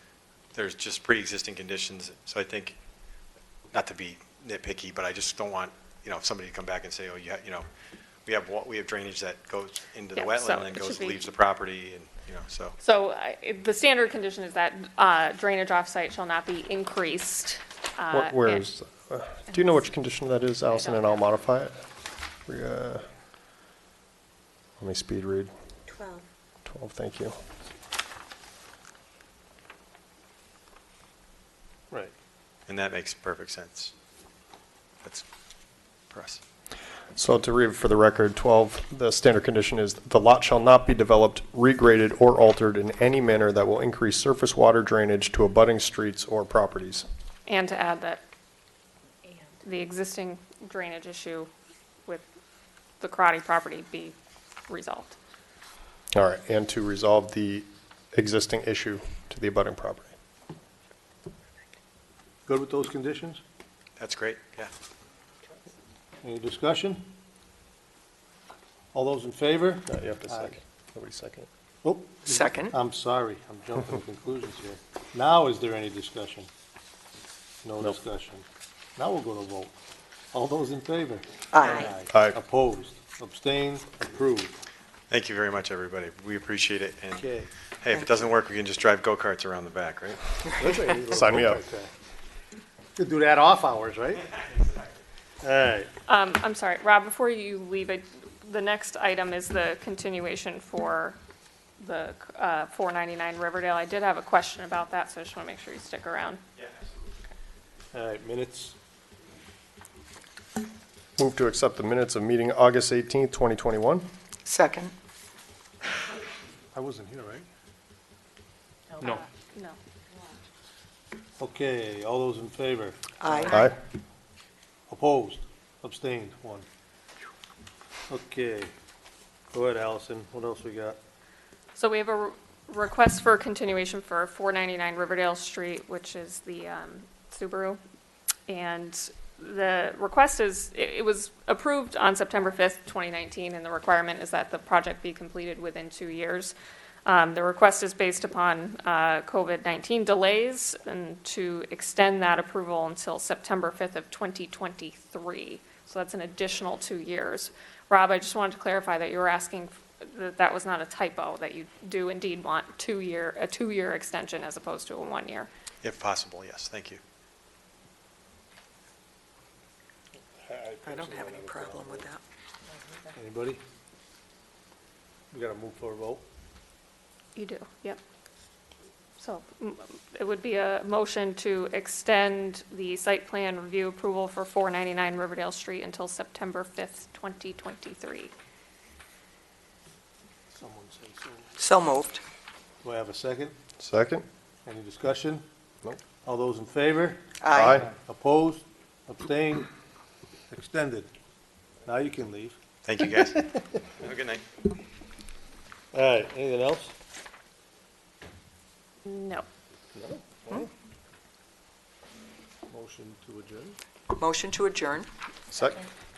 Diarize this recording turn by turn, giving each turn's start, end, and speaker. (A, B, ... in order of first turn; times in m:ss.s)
0:00.5-0:02.8 A
0:03.7-0:07.6 A
0:08.2-0:12.8 A
0:10.2-0:11.2 B
0:12.8-0:18.6 B
0:18.1-0:21.8 C
0:19.5-0:19.8 B
0:20.7-0:21.2 B
0:22.4-0:23.0 C
0:24.8-0:25.5 C
0:26.6-0:27.4 C
0:32.7-0:33.9 A
0:36.1-0:36.4 A
0:37.2-0:47.1 C
0:47.4-0:48.2 B
0:49.6-0:51.5 B
0:53.0-0:54.1 B
0:54.7-0:55.2 B
0:56.1-1:00.1 C
1:02.5-1:03.4 D
1:04.0-1:04.7 A
1:06.2-1:07.1 D
1:08.9-1:10.6 D
1:09.9-1:11.5 C
1:11.8-1:16.5 D
1:12.2-1:12.8 E
1:17.6-1:18.4 D
1:19.0-1:19.7 D
1:20.3-1:24.6 D
1:21.5-1:21.9 E
1:25.1-1:27.3 A
1:27.2-1:27.5 D
1:27.8-1:30.3 A
1:30.6-1:31.9 D
1:31.1-1:31.6 C
1:33.0-1:34.3 D
1:35.4-1:35.9 D
1:36.1-1:41.2 B
1:41.8-1:46.4 B
1:47.9-1:48.8 D
1:51.2-1:54.0 C
1:54.4-1:54.9 E
1:56.7-1:57.5 D
1:58.9-1:59.8 B
2:01.4-2:03.1 D
2:03.2-2:03.6 E
2:03.4-2:03.8 C
2:04.9-2:06.6 D
2:08.1-2:08.7 D
2:09.5-2:11.0 D
2:11.8-2:17.8 B
2:18.5-2:26.5 B
2:27.0-2:45.5 B
2:45.8-2:47.0 A
2:50.4-2:52.0 D
2:50.8-2:52.2 E
2:53.1-2:53.6 D
2:55.3-2:56.2 D
2:57.4-2:58.0 B
2:59.2-3:08.3 B
3:10.5-3:11.5 D
3:11.6-3:12.2 E
3:12.8-3:13.5 D
3:13.8-3:14.2 C
3:14.6-3:15.4 D
3:16.2-3:19.7 D
3:17.4-3:17.8 E
3:17.5-3:17.9 C
3:20.5-3:21.1 D
3:21.8-3:23.6 D
3:22.8-3:24.4 A
3:25.9-3:26.9 D
3:29.0-3:29.4 B
3:29.9-3:30.7 D
3:32.7-3:33.8 D
3:34.1-3:35.1 E
3:35.5-3:35.9 C